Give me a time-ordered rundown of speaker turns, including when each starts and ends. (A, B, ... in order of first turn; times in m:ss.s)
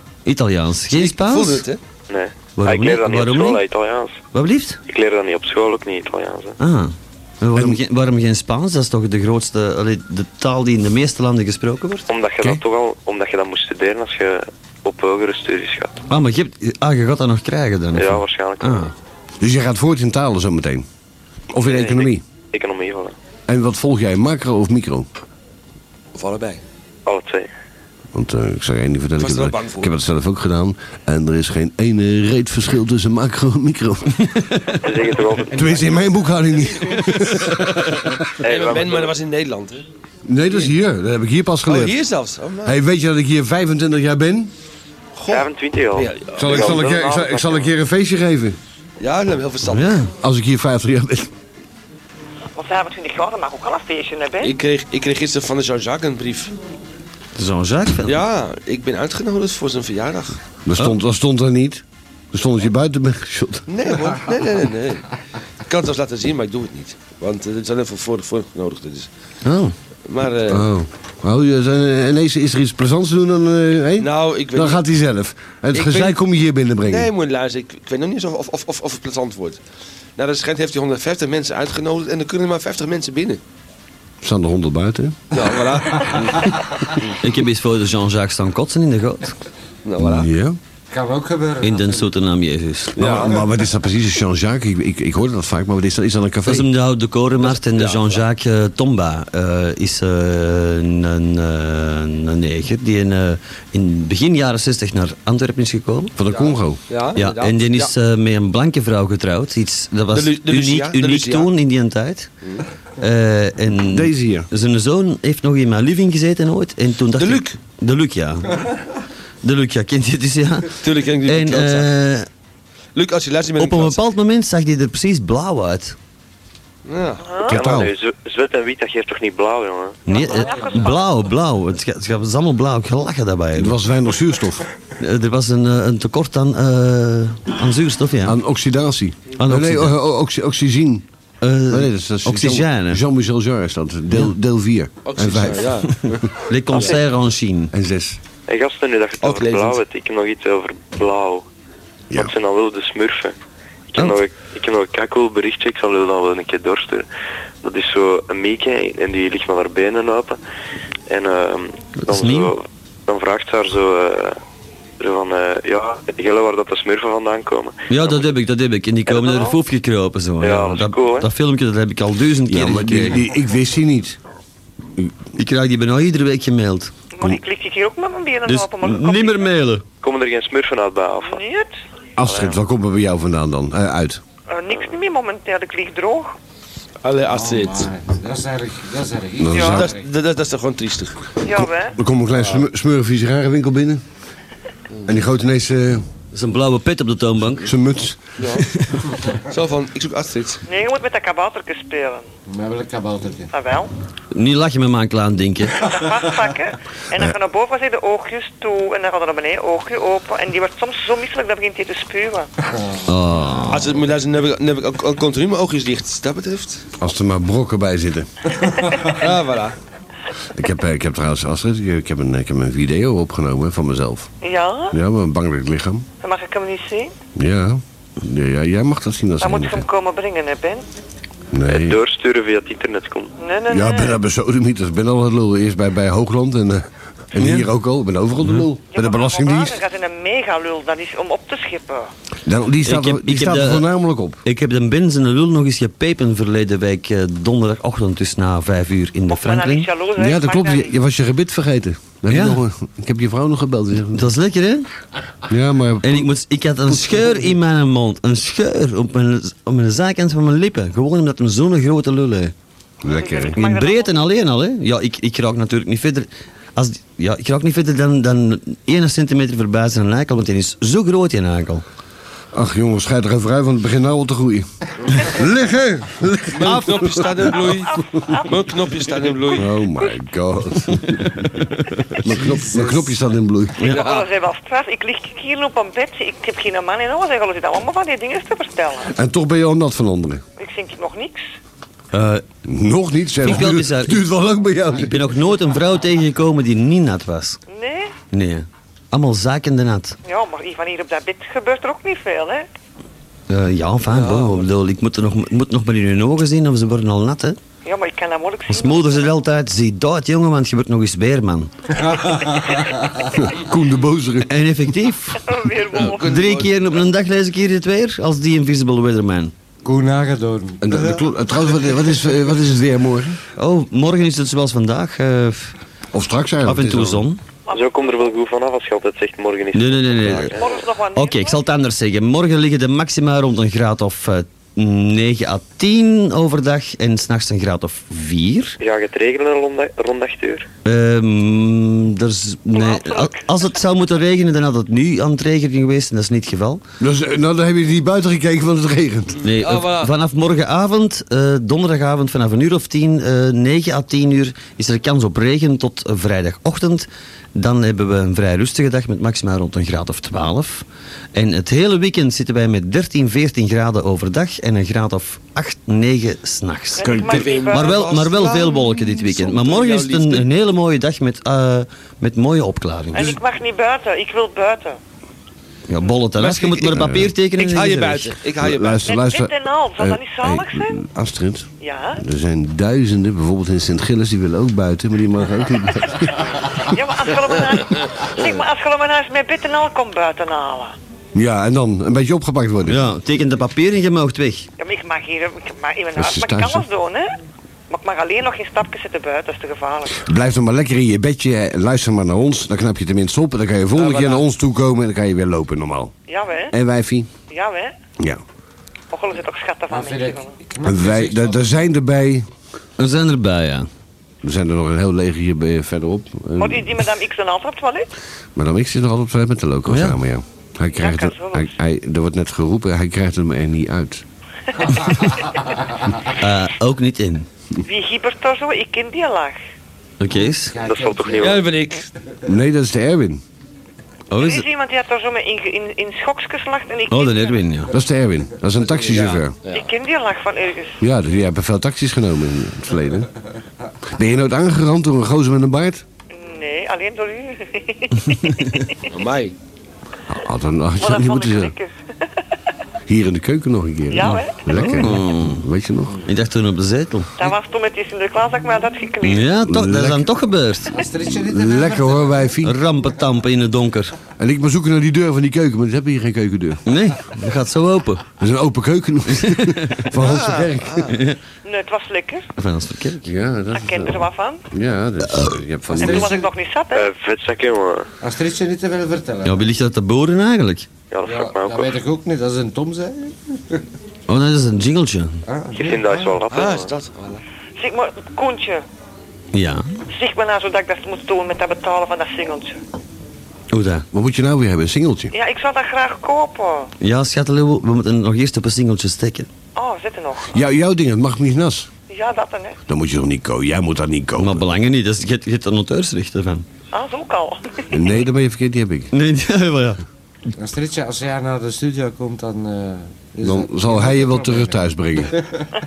0:00.2-0:01.6 A
0:00.9-0:01.8 B
0:02.1-0:04.2 C
0:02.6-0:03.6 A
0:04.3-0:04.8 A
0:04.9-0:06.6 C
0:06.6-0:12.0 A
0:12.1-0:15.9 C
0:16.1-0:18.9 A
0:17.9-0:18.9 C
0:19.4-0:20.8 D
0:21.5-0:22.2 D
0:21.6-0:23.1 C
0:23.5-0:25.1 D
0:26.1-0:26.6 B
0:27.0-0:27.5 C
0:28.1-0:34.5 D
0:29.2-0:29.9 B
0:34.5-0:34.8 A
0:34.8-0:35.8 C
0:35.5-0:38.2 D
0:38.4-0:39.1 C
0:38.4-0:39.8 B
0:40.3-0:42.0 D
0:41.6-0:42.8 B
0:42.6-0:44.5 D
0:45.2-0:46.8 B
0:45.3-0:47.7 C
0:46.4-0:48.6 D
0:49.0-0:49.9 B
0:49.6-0:50.1 A
0:50.2-0:51.3 D
0:52.6-0:54.5 E
0:54.4-0:56.5 B
0:57.4-0:58.2 A
0:58.0-1:00.4 B
1:00.6-1:03.6 D
1:03.7-1:05.0 B
1:05.7-1:09.1 B
1:09.4-1:09.7 A
1:10.1-1:10.7 B
1:10.5-1:17.1 D
1:14.0-1:14.8 B
1:15.7-1:16.2 B
1:16.8-1:19.6 B
1:20.2-1:23.4 B
1:24.2-1:25.4 D
1:25.3-1:26.5 B
1:25.9-1:26.5 F
1:27.2-1:29.4 A
1:29.8-1:30.3 B
1:30.0-1:30.6 D
1:30.9-1:32.1 F
1:31.6-1:33.2 A
1:33.0-1:33.4 B
1:33.0-1:36.7 D
1:36.5-1:46.1 A
1:37.4-1:38.2 B
1:46.2-1:46.8 D
1:46.3-1:47.9 B
1:47.2-1:52.3 A
1:50.1-1:51.5 B
1:53.0-1:58.6 A
1:53.9-1:54.5 D
1:57.2-1:57.6 B
1:59.4-2:02.3 A
2:00.8-2:01.9 B
2:02.9-2:04.0 B
2:03.6-2:06.0 A
2:06.8-2:07.3 B
2:07.4-2:10.0 C
2:07.5-2:07.9 D
2:10.0-2:13.8 A
2:10.1-2:11.1 E
2:13.6-2:14.6 D
2:15.0-2:18.4 A
2:18.2-2:21.0 D
2:19.4-2:19.9 A
2:21.4-2:23.0 A
2:21.7-2:25.8 D
2:25.0-2:27.0 B
2:26.4-2:27.7 A
2:27.7-2:28.2 D
2:28.5-2:31.4 C
2:29.2-2:29.8 B
2:32.1-2:33.3 C
2:33.9-2:37.1 C
2:37.6-2:40.4 C
2:41.1-2:44.4 C
2:42.0-2:42.5 A
2:45.0-2:47.8 C
2:47.9-2:53.2 A
2:49.1-2:49.6 E
2:50.4-2:51.3 C
2:52.5-2:54.2 D
2:55.4-2:56.9 A
2:57.1-2:59.5 E
2:58.5-2:59.8 A
3:00.0-3:01.4 C
3:01.2-3:01.7 E
3:02.2-3:04.2 D
3:02.2-3:02.6 C
3:04.5-3:06.4 E
3:07.0-3:07.9 B
3:07.3-3:10.0 F
3:09.4-3:09.9 D
3:09.5-3:09.8 E
3:09.6-3:11.3 B
3:11.4-3:11.9 E
3:11.5-3:14.0 D
3:12.3-3:12.6 B
3:15.0-3:16.0 D
3:16.3-3:17.7 A
3:17.6-3:18.3 D
3:18.4-3:18.6 B
3:19.5-3:20.6 B
3:20.7-3:22.2 E
3:22.5-3:23.5 F
3:23.5-3:23.9 E
3:24.3-3:25.9 A
3:25.8-3:32.5 E
3:33.1-3:33.8 A
3:33.7-3:36.8 B
3:37.0-3:38.3 D
3:39.1-3:39.7 B
3:40.5-3:44.3 D
3:44.4-3:45.0 E
3:44.9-3:46.1 D
3:46.2-3:47.1 E
3:47.3-3:49.8 D
3:49.4-3:50.8 E
3:51.5-3:52.0 D
3:51.7-3:53.3 C
3:53.4-3:54.2 E
3:53.7-3:59.8 D
3:57.4-3:57.7 A
3:58.4-3:58.6 A
3:58.9-4:02.1 E
4:02.4-4:04.4 D
4:02.8-4:03.9 A
4:04.4-4:09.9 A
4:09.3-4:10.9 E
4:10.2-4:14.3 D
4:12.3-4:12.6 A
4:14.1-4:14.9 A
4:15.5-4:16.3 D
4:16.0-4:22.5 A
4:16.9-4:17.5 D
4:23.0-4:23.6 D
4:23.1-4:24.2 E
4:23.5-4:31.8 A
4:32.5-4:37.4 D
4:36.5-4:39.6 B
4:36.6-4:36.9 A
4:37.9-4:38.5 E
4:39.5-4:43.9 D
4:41.2-4:42.2 A
4:42.3-4:43.2 F
4:43.8-4:49.1 E
4:43.9-4:44.3 B
4:49.0-4:50.4 D
4:50.6-4:51.4 E
4:52.1-4:52.4 A
4:52.6-4:55.1 D
4:53.4-4:54.2 A
4:54.9-4:57.6 A
4:57.7-4:58.1 E
4:58.3-5:00.2 A
5:00.2-5:02.7 E
5:03.5-5:07.6 A
5:04.1-5:04.7 B
5:07.8-5:09.3 E
5:08.7-5:11.7 A
5:11.9-5:13.2 F
5:13.4-5:14.5 D
5:14.5-5:15.4 A
5:15.4-5:16.5 E
5:15.9-5:16.7 B
5:16.0-5:19.5 A
5:19.8-5:21.3 F
5:20.8-5:23.4 D
5:23.6-5:25.7 A
5:26.1-5:27.2 D
5:26.6-5:27.4 A
5:27.7-5:28.1 E
5:27.7-5:30.8 C
5:29.7-5:30.5 A
5:30.5-5:31.6 E
5:31.1-5:38.8 A
5:38.8-5:40.7 C
5:40.8-5:46.8 A
5:42.7-5:43.4 E
5:47.0-5:49.4 D
5:49.4-6:13.3 A
5:49.6-5:50.1 B
6:07.0-6:08.0 E
6:07.0-6:07.4 D
6:07.2-6:10.5 B
6:13.1-6:15.0 E
6:15.9-6:18.3 A
6:16.4-6:19.1 B
6:16.9-6:17.3 D
6:18.6-6:26.5 D
6:19.0-6:21.0 E
6:21.8-6:22.2 E
6:26.9-6:31.0 E
6:31.3-6:33.0 D
6:32.9-6:34.7 A
6:34.8-6:37.3 E
6:36.2-6:36.8 D
6:37.9-6:40.2 E
6:40.2-6:46.1 D
6:43.9-6:44.4 B
6:46.3-6:46.7 E
6:46.7-6:47.3 D
6:47.5-6:47.9 E
6:49.1-6:50.5 E
6:49.9-6:51.7 F
6:50.8-6:52.4 D
6:53.0-6:53.9 A
6:54.4-6:57.0 D
6:56.6-6:58.1 E
6:58.6-7:04.2 D
6:59.9-7:00.2 A
7:01.0-7:01.7 E
7:04.8-7:05.5 E
7:06.4-7:07.5 A
7:07.8-7:09.6 E
7:10.2-7:10.7 A
7:10.4-7:11.6 F
7:10.8-7:11.7 C
7:11.4-7:12.0 B
7:12.4-7:13.4 D
7:14.3-7:14.6 A
7:14.4-7:17.6 E
7:17.1-7:17.9 A
7:17.9-7:19.6 D
7:18.8-7:19.9 B
7:19.7-7:21.0 E
7:21.0-7:23.3 D
7:24.1-7:26.0 D
7:26.3-7:28.9 E
7:29.1-7:29.5 B
7:30.3-7:31.7 D
7:31.0-7:31.9 E
7:33.1-7:36.2 D
7:34.1-7:34.6 E
7:34.2-7:35.6 A
7:36.2-7:37.5 A
7:37.4-7:39.5 E
7:39.2-7:41.0 A
7:39.6-7:40.3 D
7:40.9-7:42.5 F
7:41.2-7:42.8 D
7:42.6-7:44.1 A
7:44.4-7:46.8 D
7:46.8-7:48.2 A
7:48.4-7:51.0 D
7:49.4-7:50.1 A
7:50.2-7:51.2 B
7:51.1-7:51.4 A
7:51.6-7:52.4 E
7:52.6-7:53.3 A
7:53.2-7:56.4 D
7:53.7-7:54.6 E
7:55.9-7:56.5 F
7:56.0-7:57.1 E
7:56.9-7:58.1 C
7:58.2-7:59.6 F
7:59.4-8:00.9 A
8:01.1-8:01.9 C
8:01.2-8:03.8 F
8:04.3-8:05.4 A
8:05.5-8:06.4 F
8:05.7-8:06.9 C
8:06.5-8:07.4 B
8:07.8-8:08.8 E
8:09.5-8:09.8 A
8:10.1-8:12.8 E
8:13.7-8:14.0 A
8:14.1-8:15.3 D
8:15.3-8:16.9 E
8:17.0-8:19.5 A
8:19.8-8:20.5 E
8:20.5-8:21.9 D
8:22.1-8:22.8 E
8:22.9-8:24.6 D
8:24.4-8:26.6 A
8:26.9-8:27.8 E
8:27.9-8:29.1 D
8:29.1-8:30.0 A
8:30.6-8:35.7 F
8:33.4-8:35.4 D